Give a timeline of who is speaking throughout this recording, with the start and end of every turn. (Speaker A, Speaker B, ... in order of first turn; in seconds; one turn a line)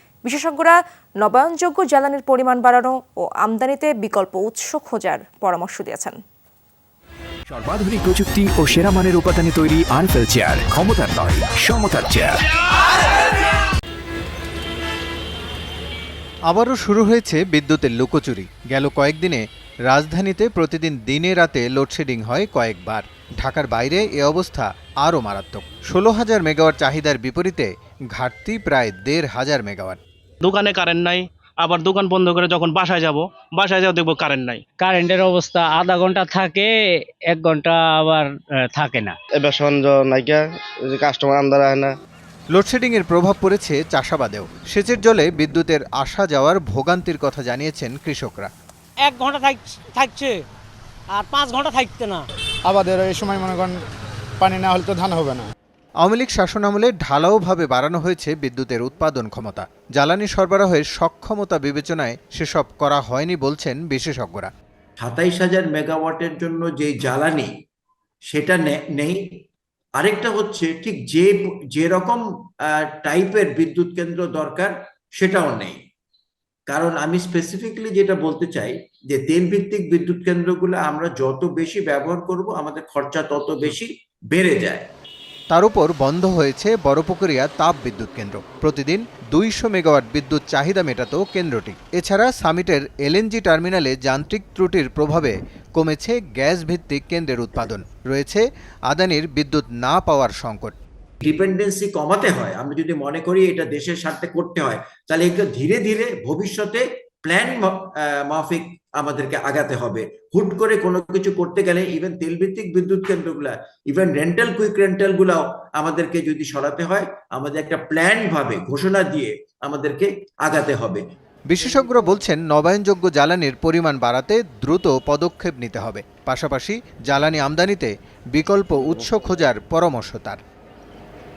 Speaker A: 0.2-6.2
Speaker B: 7.5-12.4
Speaker C: 16.5-30.0
Speaker D: 30.4-34.6
Speaker E: 34.8-36.7
Speaker E: 37.3-39.1
Speaker F: 39.4-42.0
Speaker C: 42.5-48.5
Speaker G: 49.0-50.4
Speaker G: 51.1-52.2
Speaker H: 52.7-53.8
Speaker H: 54.4-55.5
Speaker C: 56.0-64.5
Speaker I: 65.0-67.5
Speaker I: 68.3-69.2
Speaker I: 70.0-72.2
Speaker I: 72.7-75.8
Speaker I: 76.7-84.8
Speaker C: 85.5-100.8
Speaker I: 101.2-121.0
Speaker C: 121.5-130.4